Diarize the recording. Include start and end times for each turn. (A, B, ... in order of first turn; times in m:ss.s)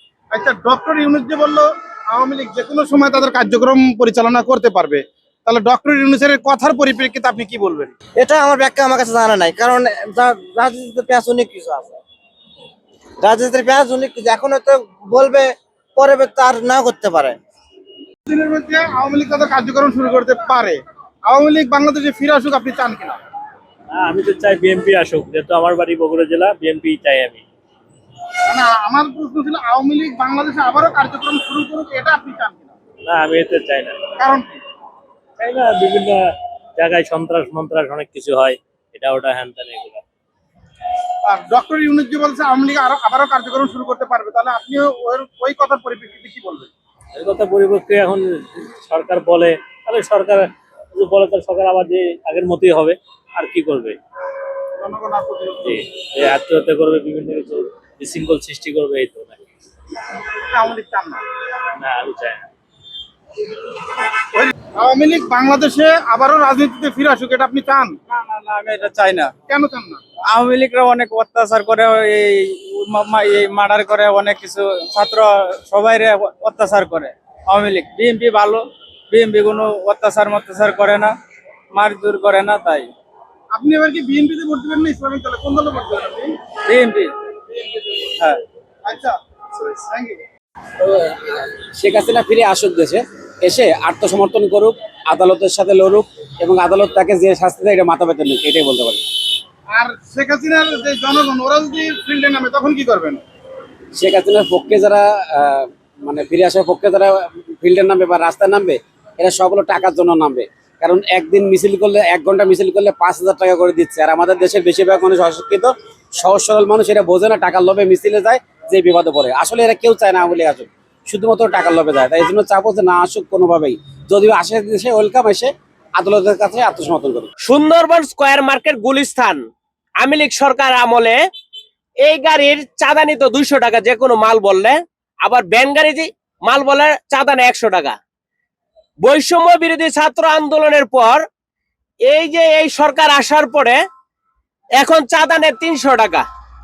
0:00.3-0:07.9 A
0:08.2-0:12.0 B
0:13.2-0:17.4 B
0:18.3-0:23.2 A
0:23.9-0:27.4 C
0:28.5-0:32.7 A
0:33.1-0:34.0 C
0:34.2-0:34.6 A
0:35.4-0:40.0 C
0:41.2-0:46.7 A
0:47.2-0:54.0 C
0:54.8-0:55.8 A
0:55.6-0:59.4 C
1:00.5-1:01.2 A
1:01.8-1:02.5 C
1:04.3-1:08.0 A
1:08.1-1:09.3 D
1:09.5-1:10.0 A
1:10.3-1:21.1 D
1:21.7-1:22.9 D
1:23.5-1:26.3 A
1:26.7-1:27.1 D
1:27.5-1:28.1 A
1:28.8-1:30.2 A
1:30.8-1:39.0 E
1:39.7-1:43.2 A
1:43.9-2:07.3 E
2:07.4-2:09.4 F
2:10.0-2:11.2 F
2:12.0-2:18.0 F
2:19.0-2:21.2 F
2:22.1-2:23.8 F
2:24.8-2:26.2 F